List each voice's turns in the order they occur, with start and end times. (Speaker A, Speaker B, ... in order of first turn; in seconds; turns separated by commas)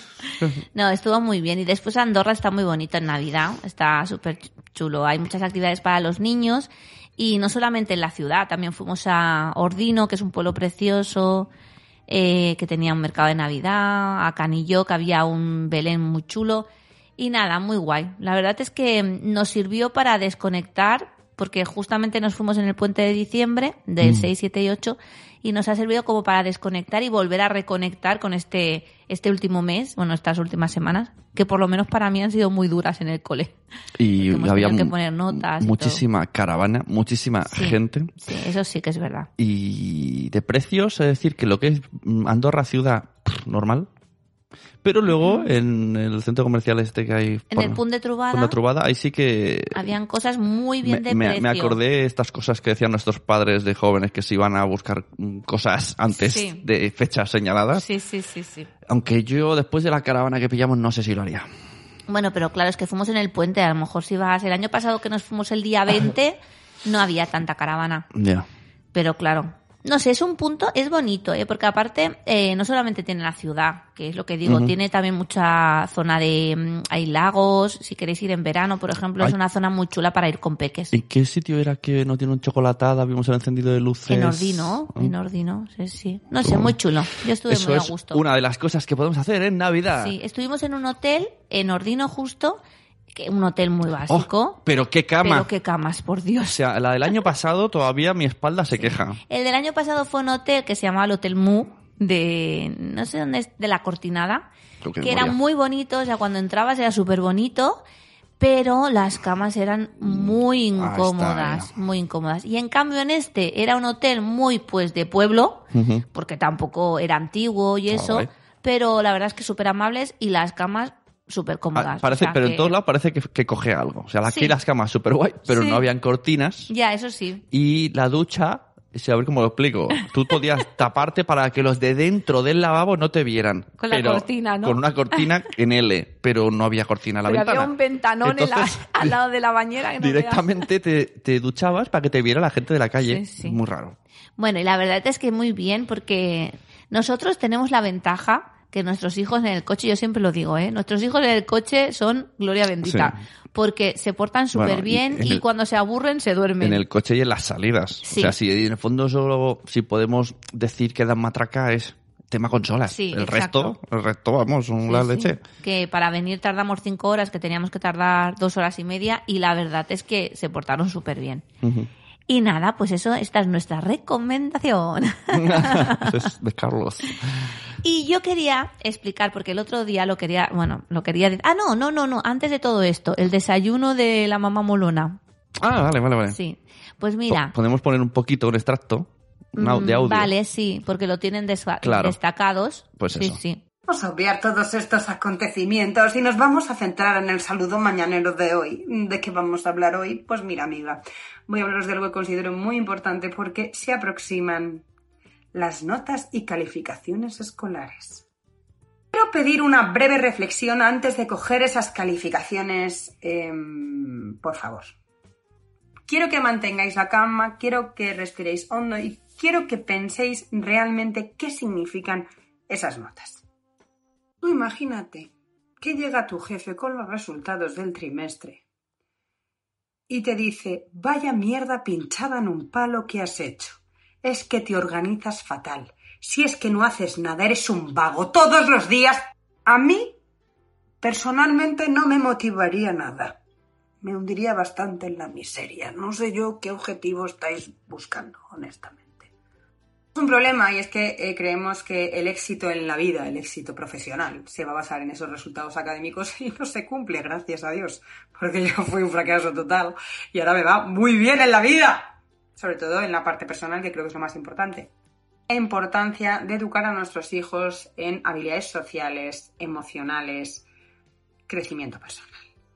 Speaker A: 0.7-11.5, Speaker A: 12.1-16.7, Speaker A: 17.2-33.5, Speaker B: 24.0-24.3, Speaker B: 34.0-38.1, Speaker A: 34.2-36.0, Speaker A: 37.5-39.3, Speaker B: 39.4-43.9, Speaker B: 44.8-49.8, Speaker A: 45.1-45.5, Speaker A: 47.5-48.6, Speaker A: 49.7-51.8, Speaker B: 50.8-57.9, Speaker A: 56.1-56.6, Speaker A: 57.7-58.7, Speaker B: 58.9-61.5, Speaker A: 62.1-68.1, Speaker B: 68.1-68.5, Speaker A: 68.9-80.9, Speaker B: 74.5-74.7, Speaker B: 80.9-85.1, Speaker A: 84.1-88.2, Speaker B: 86.4-86.8, Speaker B: 87.5-90.2, Speaker A: 90.0-92.6, Speaker A: 93.1-94.6, Speaker B: 94.1-95.5, Speaker A: 95.2-96.6, Speaker B: 96.4-99.2, Speaker A: 98.8-104.5, Speaker B: 104.8-105.4, Speaker A: 105.0-107.8, Speaker A: 108.4-122.8, Speaker B: 110.0-111.7, Speaker B: 115.7-116.0, Speaker B: 117.9-118.3, Speaker B: 121.8-126.7, Speaker A: 124.2-124.5, Speaker A: 125.5-125.9, Speaker A: 126.7-127.4, Speaker B: 127.5-137.7, Speaker A: 133.8-135.2, Speaker A: 137.2-140.5, Speaker B: 138.2-139.2, Speaker B: 140.0-144.0, Speaker A: 143.0-143.6, Speaker A: 144.4-156.8, Speaker B: 152.8-153.2, Speaker B: 154.5-155.4, Speaker B: 156.6-165.4, Speaker A: 158.0-158.3, Speaker A: 162.9-163.8, Speaker A: 164.9-171.4, Speaker B: 171.6-171.9, Speaker A: 172.3-176.1, Speaker B: 175.3-177.2, Speaker A: 177.8-185.2, Speaker B: 185.6-186.4, Speaker A: 186.3-187.5, Speaker B: 187.3-190.3, Speaker A: 189.6-193.6, Speaker B: 191.8-192.2, Speaker B: 193.0-193.4, Speaker C: 193.9-204.8, Speaker C: 205.5-208.2, Speaker C: 209.1-214.9, Speaker C: 216.1-223.4, Speaker C: 224.4-228.6, Speaker C: 230.1-240.2, Speaker C: 241.0-243.4, Speaker C: 244.0-249.3, Speaker C: 250.1-264.9, Speaker C: 265.5-270.6, Speaker C: 271.5-272.4